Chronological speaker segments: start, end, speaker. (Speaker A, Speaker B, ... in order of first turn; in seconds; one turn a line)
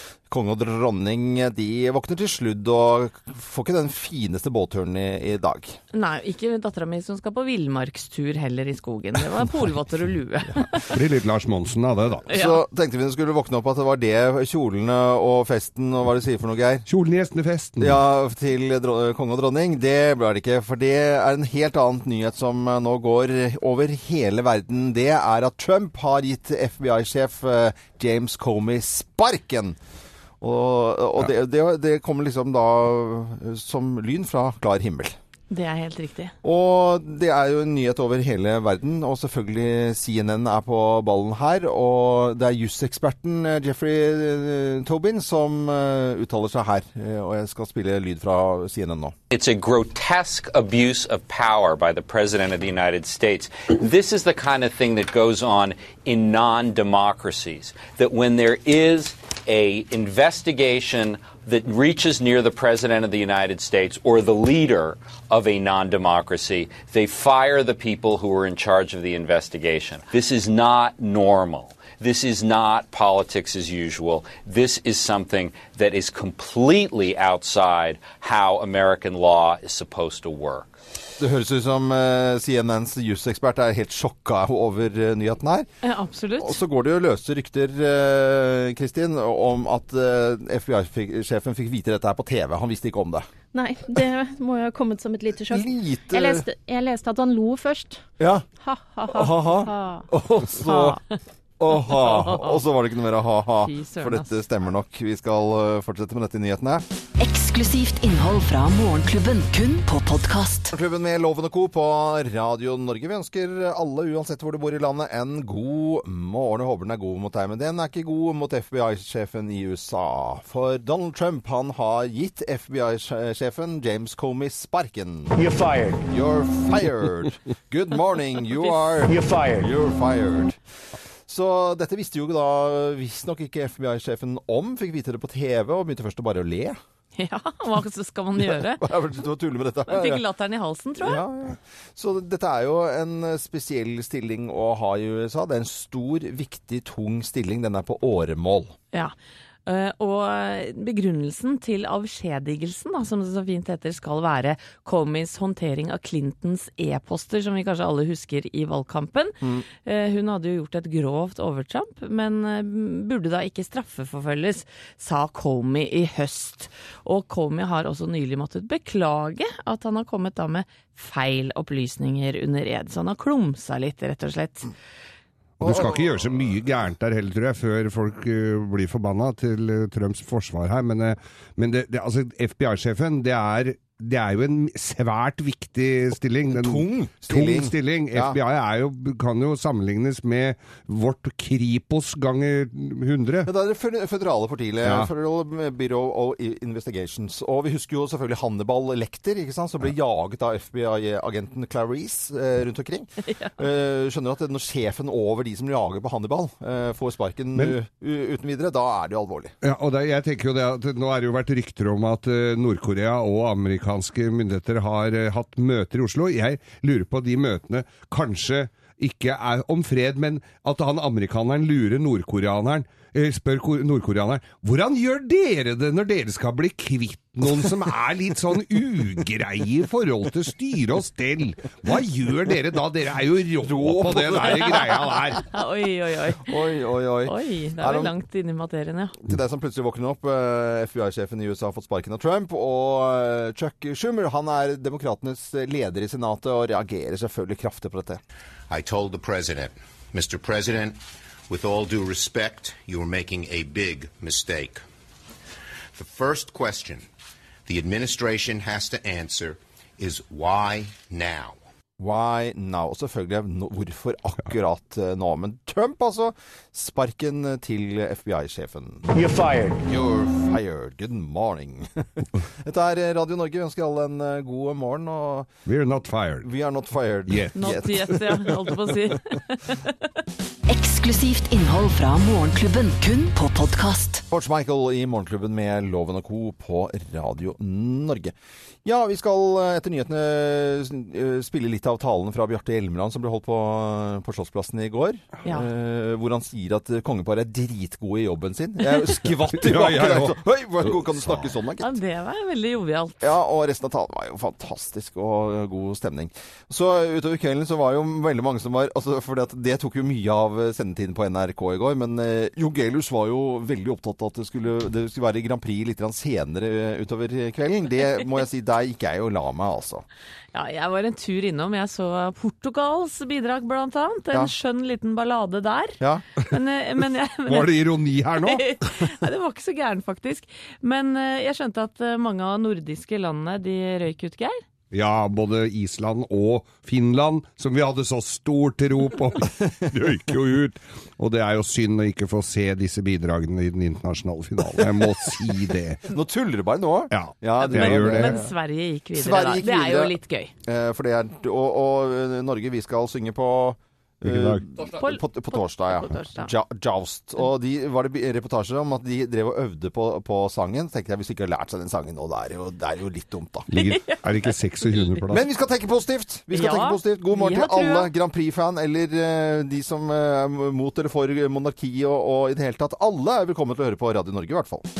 Speaker A: 0.3-5.8
Speaker B: 5.9-10.9
Speaker C: 10.9-12.2
Speaker A: 12.2-16.9
Speaker B: 12.3-12.6
Speaker C: 16.9-18.0
Speaker A: 17.8-29.8
Speaker A: 30.4-35.1
Speaker B: 35.5-36.3
Speaker A: 36.4-49.1
Speaker D: 49.3-80.7
Speaker A: 81.2-85.7
Speaker B: 85.8-86.6
Speaker A: 86.4-93.3
Speaker E: 93.5-98.0
Speaker A: 95.5-96.5
Speaker A: 98.2-98.5
Speaker E: 98.6-100.0
Speaker A: 99.1-101.0
Speaker B: 100.6-101.0
Speaker A: 101.6-106.8
Speaker B: 101.7-102.6
Speaker B: 103.6-104.3
Speaker F: 107.2-110.7
Speaker A: 110.7-130.6
Speaker A: 131.3-136.8
Speaker B: 137.2-138.8
Speaker A: 138.4-140.2
Speaker B: 139.9-141.2
Speaker A: 141.0-148.7
Speaker B: 149.7-174.7
Speaker A: 159.4-159.7
Speaker C: 175.6-193.5
Speaker A: 175.6-176.1
Speaker A: 186.5-188.4
Speaker A: 193.4-209.6
Speaker C: 194.8-195.1
Speaker B: 203.2-203.5
Speaker C: 209.6-235.4
Speaker A: 233.6-234.8
Speaker B: 235.5-236.5
Speaker A: 236.4-238.1
Speaker B: 237.2-239.2
Speaker A: 239.2-248.2
Speaker G: 248.7-254.8
Speaker G: 255.9-257.1
Speaker G: 257.6-261.6
Speaker A: 262.0-272.0
Speaker A: 272.6-275.5
Speaker C: 275.6-276.5
Speaker A: 276.4-278.2
Speaker C: 277.3-277.8
Speaker B: 277.5-279.9
Speaker F: 280.7-284.2
Speaker A: 284.3-288.3
Speaker A: 288.8-301.9
Speaker C: 299.5-301.4
Speaker B: 301.8-303.3
Speaker A: 303.2-320.0
Speaker B: 320.5-334.6
Speaker C: 327.4-328.8
Speaker C: 334.9-346.0
Speaker A: 346.1-348.5
Speaker C: 347.1-348.4
Speaker B: 347.6-350.5
Speaker A: 349.1-363.7
Speaker C: 354.2-354.6
Speaker B: 354.8-356.5
Speaker C: 363.7-365.4
Speaker B: 363.7-365.2
Speaker A: 365.3-374.9
Speaker B: 366.5-368.1